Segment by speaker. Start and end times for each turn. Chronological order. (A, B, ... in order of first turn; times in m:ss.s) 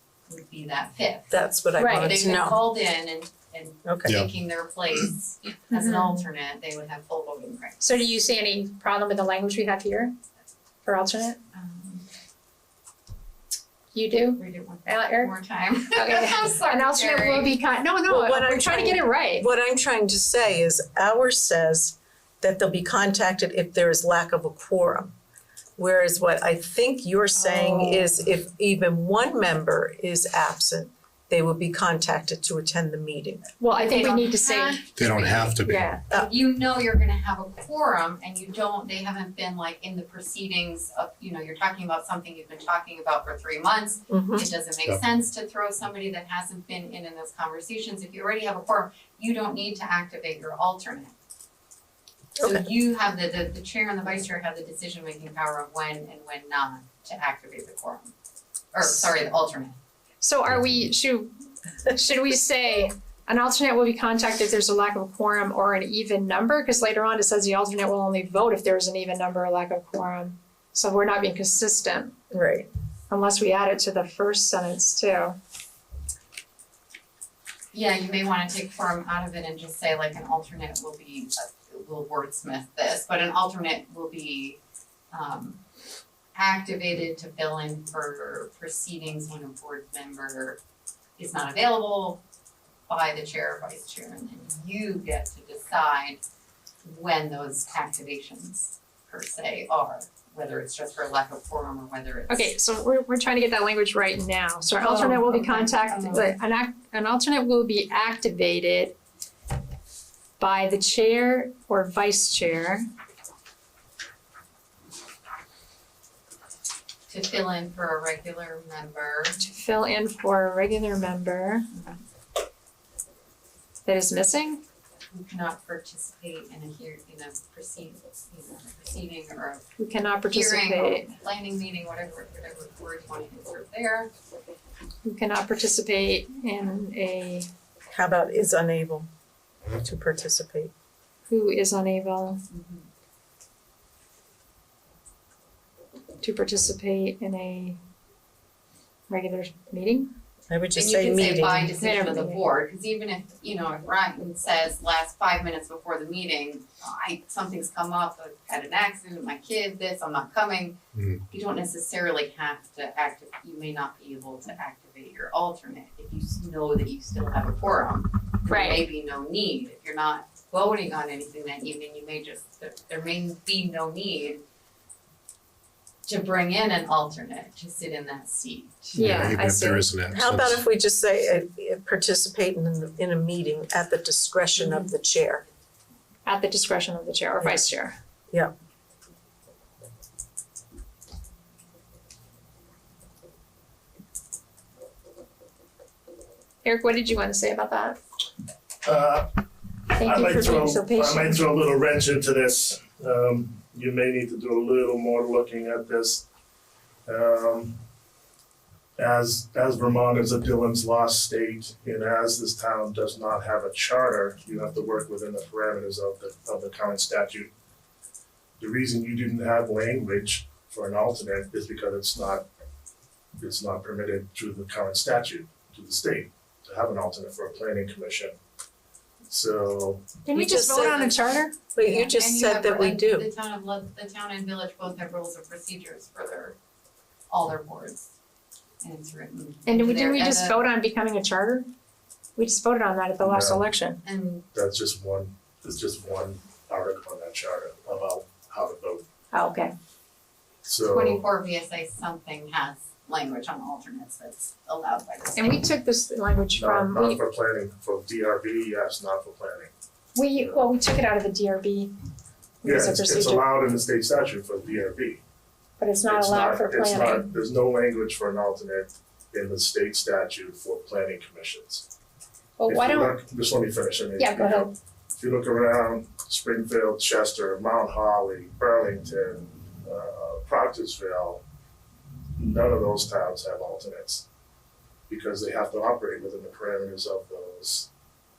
0:00.3-0:08.1 A
0:01.3-0:02.6 B
0:01.8-0:02.2 C
0:03.8-0:04.1 B
0:05.7-0:06.2 C
0:07.8-0:10.1 C
0:10.8-0:11.4 C
0:11.5-0:12.1 A
0:13.9-0:15.3 C
0:14.2-0:17.5 A
0:15.9-0:19.5 C
0:18.1-0:25.1 B
0:25.8-0:33.5 B
0:27.4-0:28.1 C
0:33.6-0:34.9 C
0:33.7-0:51.2 A
0:35.0-0:35.9 D
0:35.6-0:36.0 C
0:44.1-0:44.5 B
0:52.4-0:52.6 B
0:52.4-0:58.1 A
0:58.7-0:59.8 A
1:00.2-1:01.3 C
1:01.8-1:12.2 C
1:12.3-1:12.7 B
1:13.1-1:15.4 C
1:17.7-1:24.6 A
1:25.1-1:25.6 A
1:26.4-1:30.6 A
1:31.2-1:32.2 A
1:32.9-1:36.2 A
1:36.8-1:42.6 A
1:42.3-1:49.0 C
1:44.8-1:46.3 A
1:50.4-1:52.8 C
1:57.1-1:59.4 A
1:59.4-2:01.7 C
2:01.7-2:02.0 A
2:03.8-2:04.6 C
2:05.1-2:09.6 A
2:09.8-2:11.1 C
2:10.3-2:14.1 A
2:15.0-2:17.5 C
2:17.9-2:19.1 B
2:19.8-2:20.7 B
2:21.3-2:22.4 C
2:22.5-2:22.9 A
2:26.2-2:27.8 C
2:29.1-2:30.1 C
2:30.5-2:31.7 B
2:30.8-2:40.8 A
2:31.8-2:32.4 C
2:41.0-2:41.2 D
2:41.3-2:54.4 A
2:48.5-2:48.9 C
2:56.1-2:59.2 A
2:59.0-3:00.7 D
2:59.0-2:59.9 C
3:00.1-3:05.5 B
3:06.3-3:08.0 C
3:16.6-3:18.0 C
3:18.8-3:19.3 E
3:19.9-3:26.3 E
3:20.0-3:21.5 C
3:27.1-3:27.8 E
3:29.0-3:37.5 E
3:38.6-3:42.4 E
3:43.4-3:48.4 E
3:49.3-3:50.1 E
3:50.2-3:51.6 C
3:50.3-3:53.3 B
3:51.8-3:56.6 A
3:57.3-3:58.1 A
3:58.8-4:00.6 A
3:59.7-4:01.7 C
4:02.4-4:04.0 C
4:03.2-4:03.6 E
4:04.0-4:04.4 A
4:04.5-4:09.0 E
4:09.3-4:09.7 C
4:10.6-4:11.2 E
4:10.9-4:15.6 A
4:15.4-4:17.2 C
4:16.5-4:19.7 E
4:20.2-4:21.9 C
4:20.3-4:20.7 E
4:22.6-4:23.5 C
4:22.6-4:25.2 E
4:25.8-4:27.3 C
4:26.0-4:31.8 E
4:32.6-4:33.2 C
4:32.7-4:41.4 E
4:34.2-4:34.7 C
4:42.4-4:44.3 E
4:45.1-4:47.9 E